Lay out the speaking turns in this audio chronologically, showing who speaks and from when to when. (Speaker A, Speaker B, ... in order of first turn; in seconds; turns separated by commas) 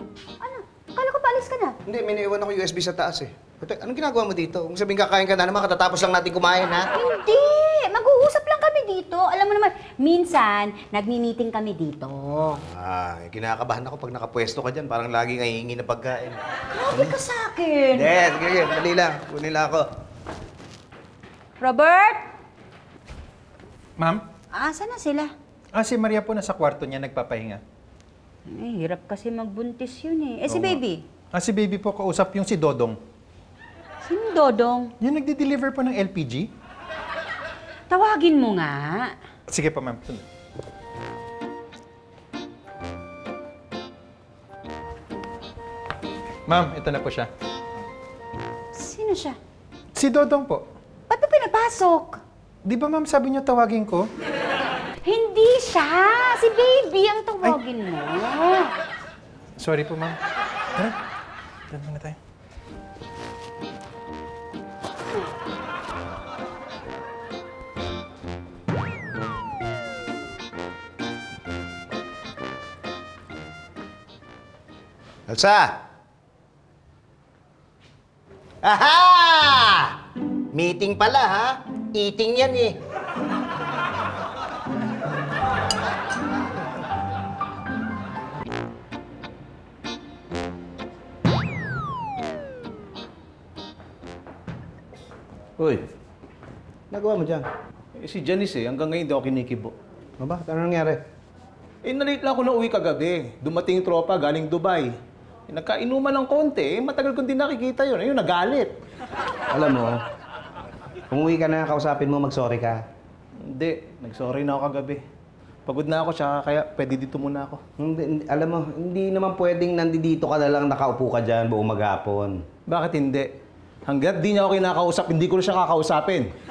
Speaker A: 0.4-1.8, Speaker B: 1.9-6.9, Speaker A: 6.9-12.5, Speaker B: 12.6-16.4, Speaker A: 16.7-18.1, Speaker B: 16.9-17.2, Speaker B: 17.9-19.9, Speaker A: 21.6-22.3, Speaker A: 24.5-25.3, Speaker C: 25.7-27.6, Speaker A: 28.5-31.0, Speaker C: 30.5-30.8, Speaker C: 31.3-33.0, Speaker A: 34.0-34.9, Speaker C: 35.0-36.5, Speaker A: 37.9-39.1, Speaker C: 39.5-40.2, Speaker C: 46.5-47.3, Speaker A: 48.7-49.4, Speaker C: 50.0-50.6, Speaker A: 51.1-52.2, Speaker C: 52.6-54.1, Speaker A: 55.0-58.7, Speaker C: 59.6-60.1, Speaker C: 61.7-62.1, Speaker B: 75.3-75.7, Speaker B: 78.6-79.9, Speaker B: 80.5-82.8, Speaker D: 95.6-95.8, Speaker B: 96.9-97.5, Speaker D: 98.0-99.7, Speaker B: 100.2-101.0, Speaker D: 101.8-104.9, Speaker D: 105.5-108.7, Speaker B: 109.5-110.0, Speaker B: 111.1-112.8, Speaker D: 113.4-115.0, Speaker D: 115.7-117.6, Speaker B: 117.8-122.4, Speaker D: 122.7-123.3, Speaker D: 123.9-126.3